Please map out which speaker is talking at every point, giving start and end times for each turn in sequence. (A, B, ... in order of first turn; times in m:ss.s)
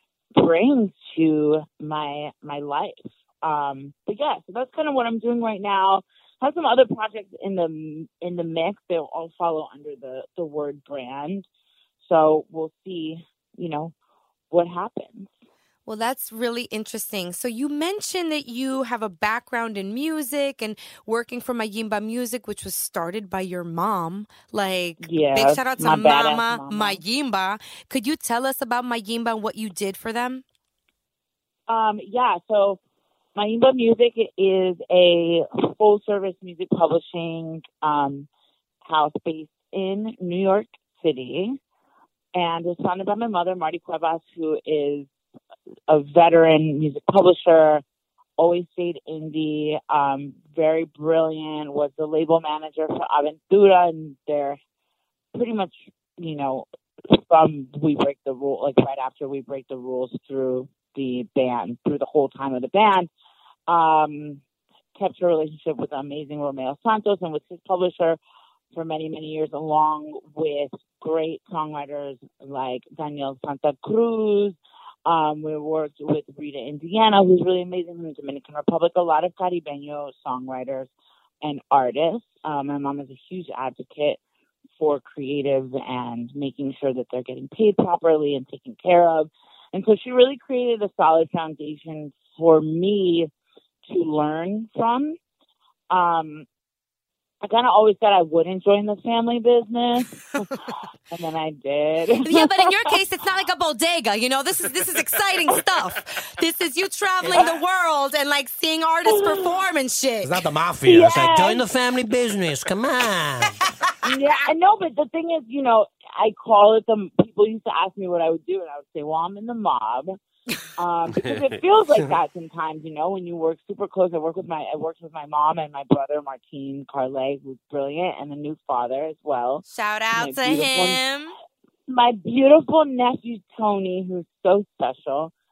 0:00.4-0:11.4 A
0:12.0-0:13.9 A
0:14.5-0:15.3 A
0:15.8-0:30.4 B
0:25.0-0:27.0 A
0:31.7-0:32.8 A
0:33.4-0:38.3 A
0:38.8-0:41.6 A
0:42.3-0:45.1 A
0:45.9-0:47.8 A
0:48.4-0:54.6 A
0:55.3-1:03.1 A
1:03.7-1:04.4 A
1:05.0-1:08.2 A
1:08.7-1:20.9 A
1:21.4-1:24.2 A
1:24.8-1:33.3 A
1:33.8-1:35.2 A
1:35.9-1:36.4 A
1:37.4-1:40.5 A
1:41.1-1:42.7 A
1:42.2-1:50.4 B
1:49.1-1:49.5 A
1:50.2-1:53.6 C
1:50.8-1:51.6 A
1:54.0-2:00.1 A
2:00.8-2:11.0 A
2:09.6-2:11.3 B
2:11.9-2:15.3 A